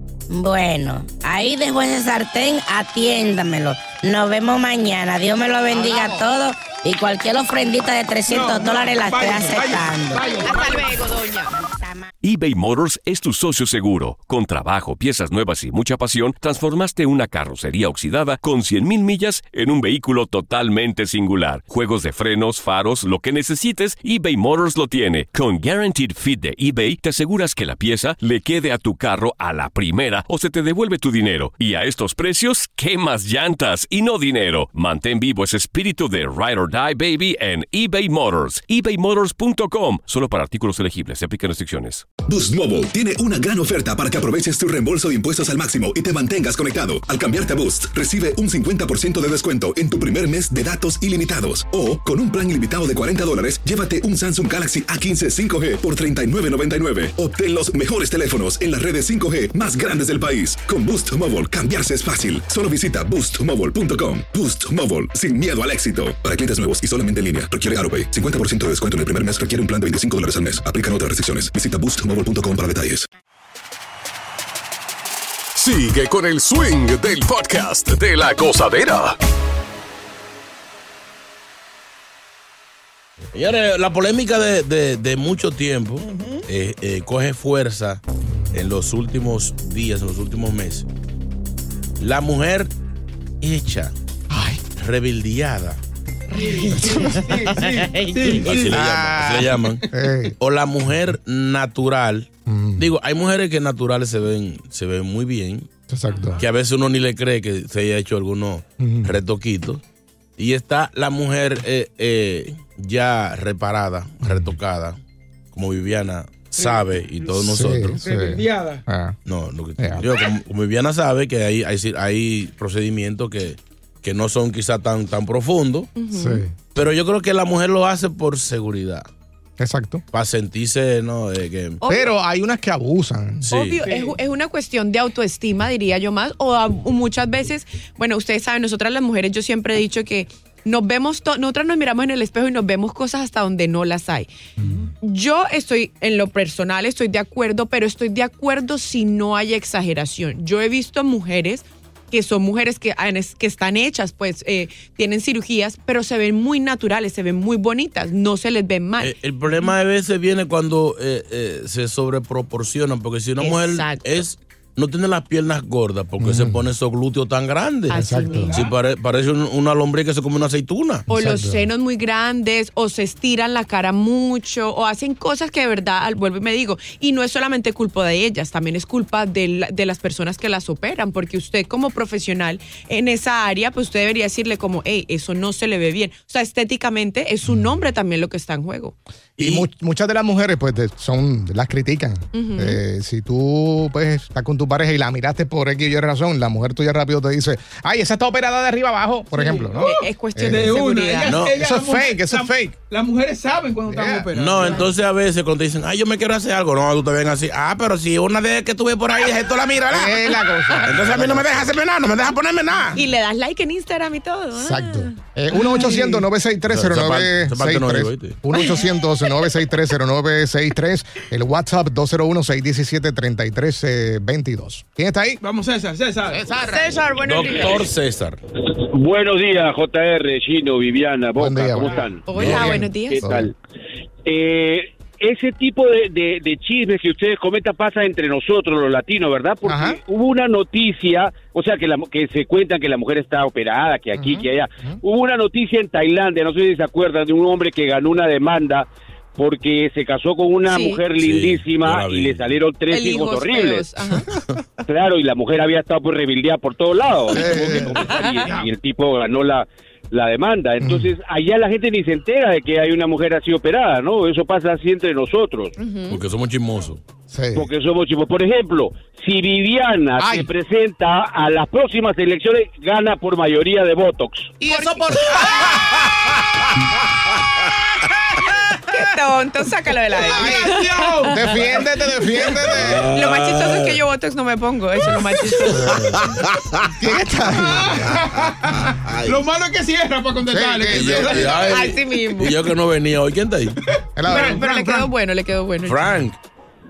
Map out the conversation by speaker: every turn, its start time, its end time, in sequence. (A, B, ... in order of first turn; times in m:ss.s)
0:00.3-0:10.5 A
0:05.7-0:06.3 B
0:08.3-0:10.5 C
0:10.2-0:10.6 B
0:10.4-0:11.5 D
0:11.6-0:12.1 A
0:12.2-0:42.0 E
0:42.2-1:13.1 F
1:15.6-1:19.2 G
1:23.3-1:28.0 H
1:26.0-1:26.4 C
1:28.5-1:30.9 H
1:32.0-1:32.7 H
1:33.4-1:33.9 H
1:34.3-1:34.6 B
1:34.7-1:35.8 H
1:36.3-1:38.4 D
1:36.3-1:38.8 C
1:38.4-1:39.8 H
1:38.6-1:40.4 B
1:40.4-1:45.7 H
1:42.5-1:42.8 B
1:45.9-1:46.4 B
1:46.2-1:46.4 C
1:46.4-1:49.8 H
1:48.8-1:49.1 B
1:50.4-1:55.0 H
1:54.2-1:54.5 B
1:55.5-1:58.0 H
1:56.6-1:57.3 C
1:57.4-1:59.2 B
1:58.0-1:58.8 C
1:59.2-2:05.9 H
1:59.8-2:00.1 B
2:06.0-2:06.4 D
2:06.1-2:06.5 B
2:06.7-2:09.0 H
2:09.6-2:10.0 B
2:10.1-2:11.8 H
2:11.8-2:12.1 D
2:11.8-2:13.5 B
2:13.4-2:13.8 H
2:13.4-2:24.3 D
2:13.8-2:14.2 C
2:24.6-2:24.8 C
2:25.0-2:39.1 D
2:39.0-2:48.0 H
2:43.4-2:44.2 D
2:46.2-2:46.7 B
2:47.9-2:48.6 D
2:47.9-2:48.5 B
2:48.4-2:48.7 C
2:48.5-2:51.1 H
2:51.1-2:51.7 B
2:51.1-3:09.0 D
3:09.4-3:09.6 H
3:09.4-3:20.8 B
3:12.3-3:12.8 D
3:19.3-3:24.9 C
3:19.8-3:21.4 D
3:21.3-3:21.6 H
3:21.4-3:22.8 B
3:23.8-3:24.3 B
3:24.3-3:30.3 H
3:24.6-3:24.9 D
3:29.9-3:31.7 B
3:30.8-3:33.0 H
3:32.9-3:36.2 D
3:34.5-3:45.4 B
3:36.7-3:38.4 H
3:45.4-3:46.5 C
3:46.3-3:47.0 B
3:46.6-3:47.9 D
3:47.2-3:48.4 H
3:48.7-3:53.5 I
3:51.4-3:53.5 B
3:52.2-3:53.2 D
3:52.3-3:52.8 H
3:54.2-4:13.8 I
3:59.6-4:00.0 B
4:04.2-4:05.0 B
4:10.7-4:11.0 D
4:11.2-4:12.6 H
4:12.9-4:14.3 D
4:14.8-4:25.7 I
4:17.3-4:18.0 B
4:17.9-4:18.5 D
4:20.8-4:21.1 B
4:25.8-4:26.2 D
4:26.1-4:27.0 H
4:27.3-4:27.7 B
4:27.5-4:34.5 I
4:30.2-4:30.5 B
4:34.6-4:36.0 B
4:34.7-4:35.6 D
4:38.9-4:41.8 D
4:40.3-4:40.7 B
4:40.3-4:41.7 C
4:41.2-4:43.1 B
4:42.7-4:44.0 H
4:43.0-4:46.1 D
4:45.6-4:48.3 B
4:47.6-4:51.7 C
4:50.4-4:51.6 B
4:50.9-4:53.7 H
4:51.5-4:52.6 D
4:54.2-4:54.7 B
4:54.2-4:55.1 C
4:54.3-4:56.2 D
4:55.8-4:56.4 H